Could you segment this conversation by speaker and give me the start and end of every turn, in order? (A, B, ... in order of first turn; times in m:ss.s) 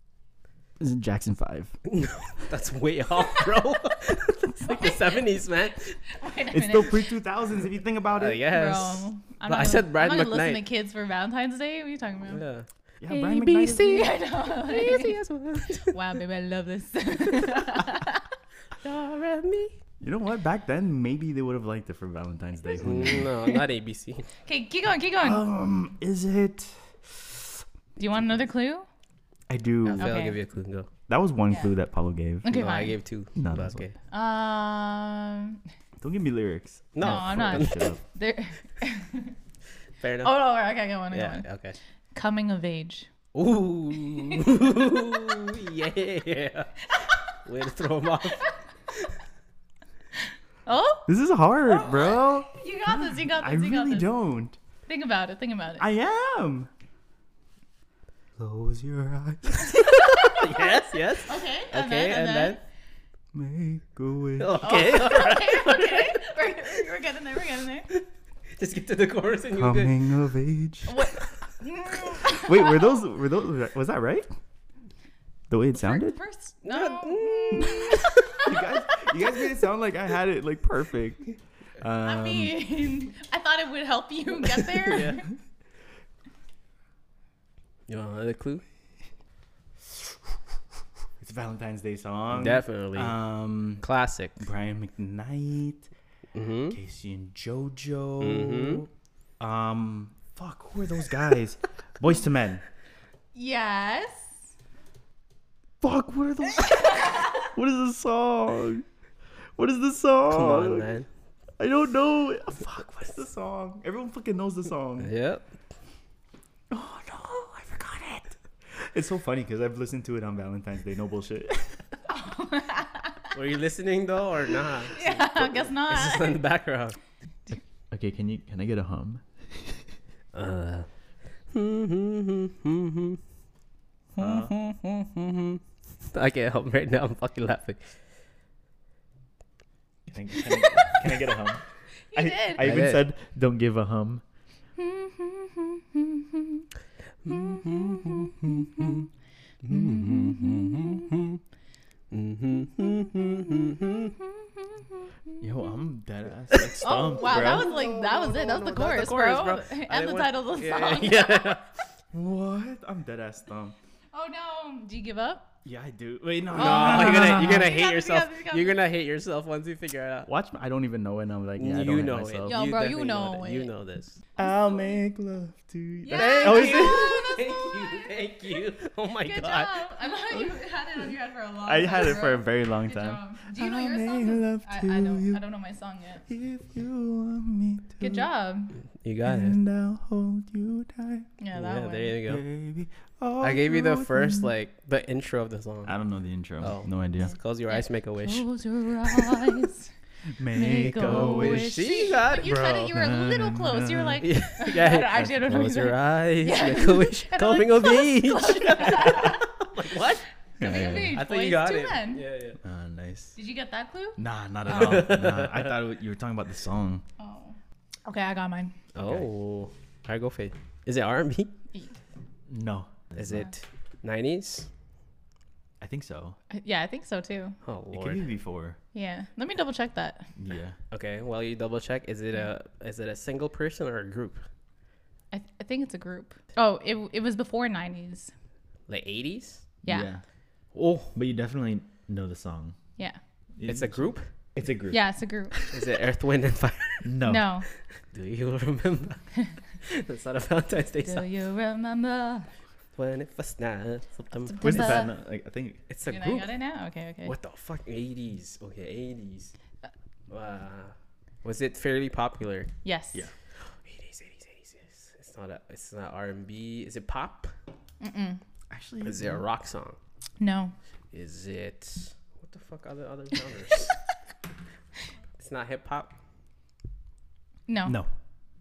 0:00.8-0:01.8 A
0:01.9-0:06.0 B
0:04.6-0:05.2 C
0:06.1-0:07.1 C
0:06.5-0:08.5 A
0:08.1-0:10.6 B
0:08.5-0:12.4 C
0:12.3-0:16.2 B
0:13.0-0:14.1 A
0:13.7-0:15.2 C
0:15.8-0:18.3 C
0:18.8-0:19.8 B
0:20.0-0:23.3 A
0:22.8-0:24.3 B
0:23.0-0:23.6 C
0:24.4-0:25.4 C
0:25.2-0:27.6 A
0:28.0-0:28.9 C
0:29.5-0:30.2 A
0:29.8-0:30.9 B
0:30.0-0:30.4 C
0:31.1-0:32.6 A
0:32.4-0:33.0 C
0:32.5-0:34.0 B
0:33.4-0:33.8 A
0:34.1-0:35.6 C
0:36.0-0:38.0 A
0:37.0-0:37.9 B
0:37.0-0:39.4 C
0:40.0-0:40.5 B
0:40.2-0:41.5 C
0:41.1-0:41.8 B
0:42.1-0:43.1 C
0:43.3-0:49.1 B
0:44.2-0:44.8 C
0:46.9-0:47.3 C
0:50.7-0:51.1 C
0:51.1-0:54.6 A
0:51.6-0:54.1 C
0:54.9-0:55.9 C
0:55.8-0:56.7 A
0:58.4-1:00.5 A
0:59.8-1:00.5 C
1:00.2-1:02.6 B
1:01.3-1:02.6 C
1:03.3-1:05.0 A
1:04.4-1:06.6 B
1:04.6-1:07.9 C
1:08.6-1:10.0 B
1:09.5-1:11.2 A
1:10.9-1:13.0 C
1:12.1-1:14.3 A
1:15.5-1:16.1 A
1:15.8-1:18.6 C
1:16.6-1:18.4 B
1:18.3-1:22.6 A
1:22.0-1:25.3 C
1:24.8-1:25.2 B
1:27.9-1:28.6 B
1:31.2-1:33.8 A
1:32.3-1:33.2 B
1:33.8-1:34.4 B
1:34.4-1:35.9 A
1:36.3-1:36.8 B
1:36.7-1:38.9 A
1:38.2-1:38.9 B
1:39.4-1:42.6 A
1:43.3-1:44.3 C
1:45.8-1:48.8 A
1:46.6-1:47.4 C
1:49.6-1:50.9 A
1:50.3-1:51.1 B
1:51.6-1:55.1 A
1:55.0-1:55.4 B
1:56.7-2:01.9 A
2:02.1-2:03.3 C
2:03.3-2:07.0 B
2:04.9-2:06.4 C
2:07.5-2:09.9 A
2:10.3-2:10.9 B
2:11.5-2:13.2 B
2:14.2-2:14.5 A
2:14.2-2:14.9 C
2:15.0-2:18.0 B
2:20.1-2:24.2 A
2:20.4-2:21.2 C
2:22.1-2:22.7 C
2:22.6-2:23.0 B
2:24.8-2:26.7 C
2:27.2-2:29.0 B
2:27.3-2:29.0 C
2:29.6-2:31.4 B
2:29.7-2:31.2 C
2:32.1-2:34.1 B
2:33.1-2:35.4 C
2:35.4-2:37.8 A
2:36.5-2:41.7 B
2:36.8-2:41.6 C
2:42.1-2:43.8 A
2:44.1-2:45.5 C
2:45.6-2:47.7 A
2:46.5-2:50.3 B
2:46.6-2:48.8 C
2:50.3-2:52.6 A
2:51.6-2:54.2 B
2:52.5-2:53.7 C
2:54.4-2:57.5 A
2:54.4-2:54.9 C
2:56.0-2:58.1 C
2:56.1-2:59.8 B
2:59.2-3:06.2 C
3:01.7-3:05.4 A
3:06.3-3:08.3 A
3:08.0-3:08.8 C
3:09.0-3:09.6 B
3:09.2-3:11.3 A
3:11.4-3:12.2 C
3:11.5-3:12.4 B
3:12.3-3:14.5 A
3:13.4-3:16.0 B
3:15.9-3:17.4 A
3:16.6-3:18.5 B
3:17.2-3:19.9 C
3:19.1-3:19.6 B
3:20.4-3:24.4 A
3:20.5-3:29.4 C
3:21.0-3:22.9 B
3:24.2-3:30.2 B
3:28.8-3:29.4 A
3:30.6-3:31.2 A
3:30.6-3:32.2 C
3:31.0-3:32.6 B
3:32.6-3:33.4 A
3:33.4-3:34.2 C
3:34.2-3:37.0 A
3:34.7-3:35.8 B
3:37.2-3:38.8 C
3:39.0-3:41.5 B
3:39.0-3:39.3 A
3:42.5-3:43.5 A
3:43.2-3:44.7 B
3:45.8-3:46.4 A
3:46.5-3:47.6 C
3:47.6-3:48.3 B
3:47.9-3:48.8 A
3:48.9-3:50.3 C
3:50.4-3:50.8 A
3:50.9-3:54.4 B
3:55.3-3:58.3 C
3:58.9-3:59.7 B
3:59.8-4:00.1 C
3:59.9-4:00.2 A
4:00.7-4:01.2 B
4:01.1-4:02.8 A
4:03.6-4:05.8 A
4:03.6-4:04.3 B
4:04.9-4:05.6 C
4:05.7-4:07.1 B
4:07.0-4:07.5 A
4:07.2-4:07.7 C
4:08.0-4:11.3 B
4:11.0-4:12.5 C
4:13.0-4:15.1 B
4:14.5-4:15.1 C
4:14.6-4:15.8 A
4:15.9-4:16.5 B
4:16.1-4:17.3 C
4:17.2-4:19.5 B
4:20.3-4:22.7 B
4:22.8-4:23.3 C
4:23.8-4:27.5 B
4:28.0-4:28.4 C
4:28.7-4:29.4 A
4:29.0-4:30.0 B
4:30.4-4:30.7 C
4:31.1-4:34.0 B
4:35.4-4:36.2 B
4:37.7-4:38.0 C